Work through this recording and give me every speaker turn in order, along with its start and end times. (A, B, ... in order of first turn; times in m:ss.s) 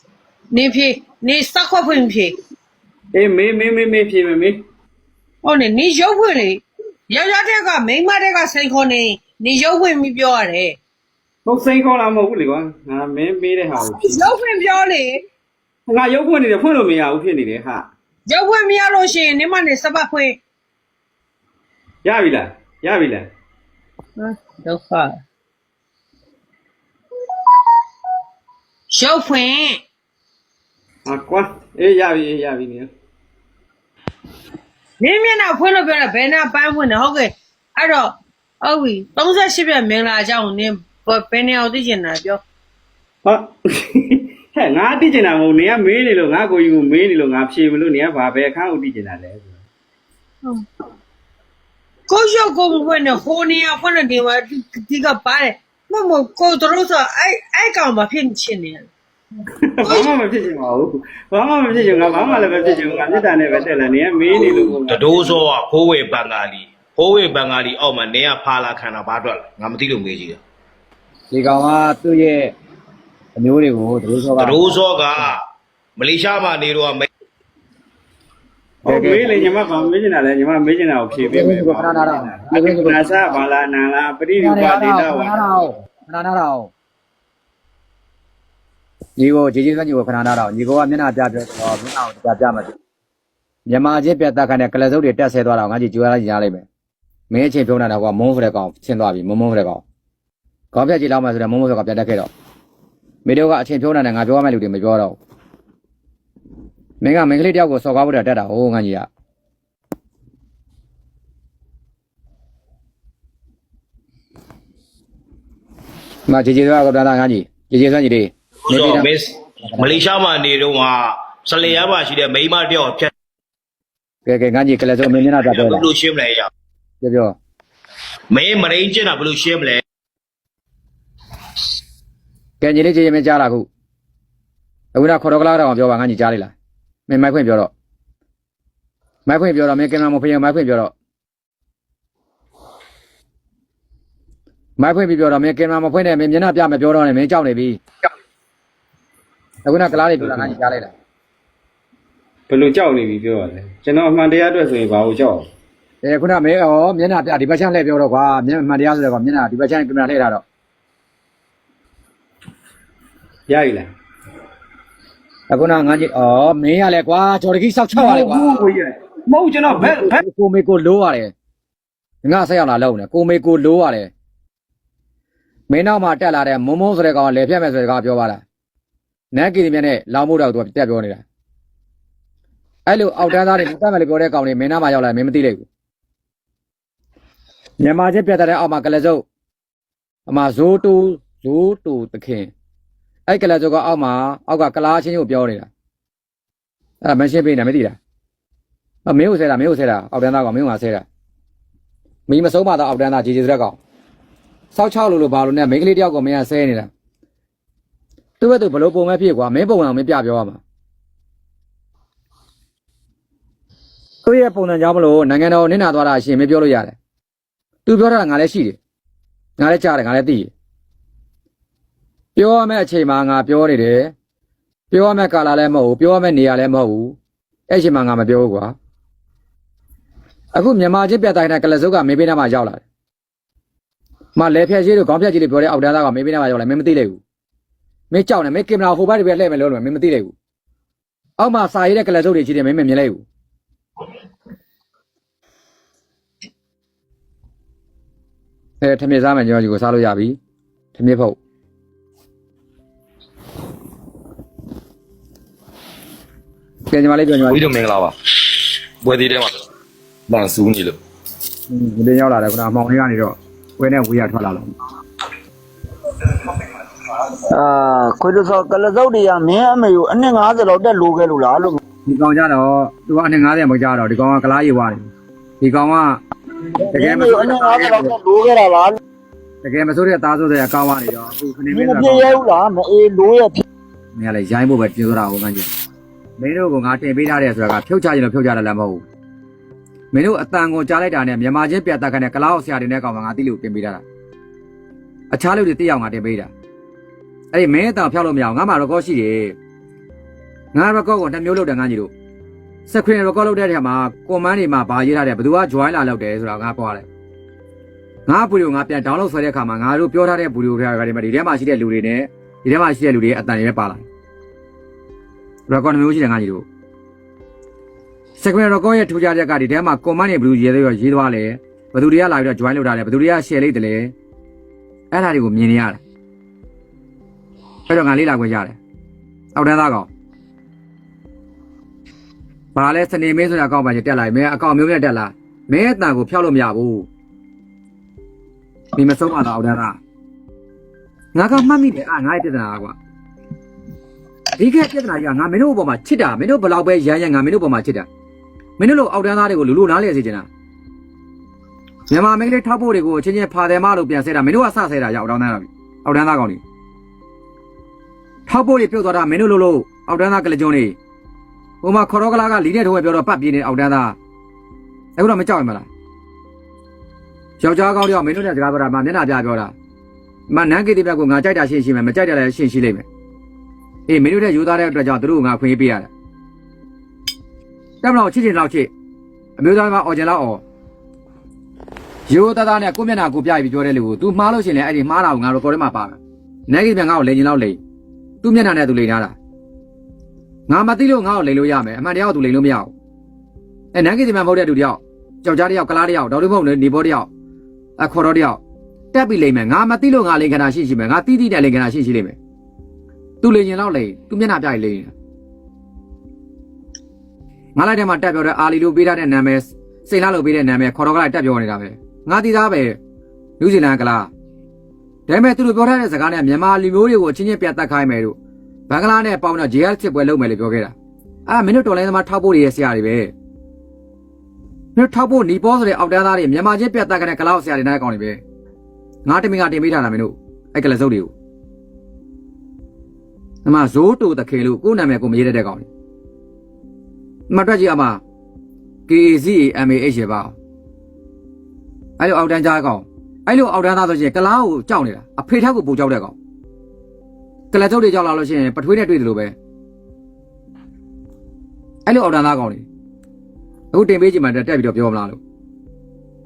0:00.5-0:02.4 A
0:03.1-0:04.6 B
0:05.4-0:10.8 A
0:11.5-0:14.2 B
0:13.9-0:15.2 A
0:15.9-0:17.9 B
0:18.3-0:20.4 A
0:22.0-0:23.3 B
0:24.2-0:25.2 A
0:28.9-0:29.8 A
0:31.0-0:32.9 B
0:35.0-0:42.4 A
0:43.2-0:49.6 B
0:52.1-0:58.9 A
0:59.6-1:05.4 B
1:04.3-1:10.4 C
1:11.3-1:12.5 D
1:13.4-1:14.7 D
1:14.4-1:15.4 C
1:16.0-1:17.0 C
1:18.8-1:19.5 D
1:18.9-1:25.3 B
1:21.1-1:23.4 D
1:24.4-1:26.7 D
1:29.2-1:32.8 D
1:33.7-1:36.7 D
1:37.3-1:39.8 D
1:40.7-1:42.3 D
1:43.2-1:45.2 D
1:47.0-1:49.1 D
1:56.3-1:59.1 D
1:58.7-2:03.1 C
1:59.6-2:00.0 D
2:04.3-2:05.9 D
2:05.4-2:06.5 C
2:07.0-2:07.4 D
2:08.3-2:09.8 C
2:12.6-2:13.7 D
2:14.9-2:16.5 D
2:17.1-2:17.7 D
2:19.3-2:20.9 D
2:24.8-2:27.8 D
2:29.6-2:30.9 D
2:32.5-2:35.5 B
2:36.0-2:40.4 D
2:43.5-2:43.9 B
2:45.5-2:48.6 D
2:48.0-2:50.2 B
2:49.7-2:51.3 D
2:52.2-2:54.1 D
2:55.7-2:58.4 D
2:59.3-3:01.2 D
3:02.9-3:05.7 D
3:07.8-3:09.2 D
3:10.3-3:12.5 D
3:13.3-3:15.7 D
3:17.0-3:18.0 D
3:19.1-3:21.0 D
3:22.3-3:23.8 D
3:24.7-3:26.9 D
3:28.4-3:30.6 D
3:34.2-3:37.0 D
3:37.9-3:38.8 D
3:39.6-3:40.5 D
3:42.4-3:44.1 D
3:44.9-3:47.2 D
3:47.7-3:48.8 D
3:50.5-3:52.8 D
3:54.4-3:57.2 D
3:58.1-4:00.3 D
4:01.4-4:03.2 D
4:08.8-4:10.4 D
4:11.0-4:11.4 D
4:16.9-4:17.7 D
4:17.5-4:18.1 E
4:19.0-4:19.6 E
4:20.3-4:21.0 E
4:21.7-4:24.7 D
4:27.5-4:31.8 F
4:32.1-4:35.1 D
4:35.6-4:36.2 D
4:36.8-4:39.0 F
4:36.9-4:38.1 D
4:39.6-4:42.5 D
4:41.7-4:43.6 F
4:44.1-4:45.7 D
4:46.4-4:49.0 D
4:50.1-4:54.0 D
4:55.3-4:56.5 D
4:57.5-4:59.6 D
5:00.7-5:02.1 D
5:02.9-5:07.1 D
5:08.3-5:14.0 D
5:15.7-5:16.6 D
5:18.4-5:24.1 D
5:25.1-5:26.0 D
5:27.9-5:28.8 D
5:29.5-5:30.1 D
5:32.8-5:37.1 D
5:38.9-5:40.0 D
5:41.3-5:43.0 D
5:44.6-5:48.1 D
5:48.8-5:50.5 D
5:52.1-5:56.6 D
5:58.5-6:01.0 D
6:01.8-6:04.2 D
6:05.2-6:05.9 D
6:07.6-6:09.7 D
6:10.5-6:13.1 D
6:14.1-6:16.1 D
6:18.0-6:18.9 D
6:19.6-6:20.6 D
6:22.3-6:27.8 D
6:28.4-6:29.3 D
6:30.7-6:32.9 D
6:33.9-6:37.3 D
6:38.0-6:38.6 D
6:39.1-6:42.4 D
6:43.4-6:45.1 D
6:47.8-6:53.0 D
6:53.6-6:54.3 D
6:55.3-6:58.4 D
6:58.9-7:00.9 D
7:01.5-7:03.3 D
7:04.9-7:08.4 D
7:09.2-7:11.3 D
7:13.6-7:15.9 D
7:17.5-7:18.2 D
7:19.1-7:20.5 D
7:22.2-7:26.3 D
7:27.7-7:29.5 D
7:32.1-7:32.8 D
7:33.9-7:35.4 D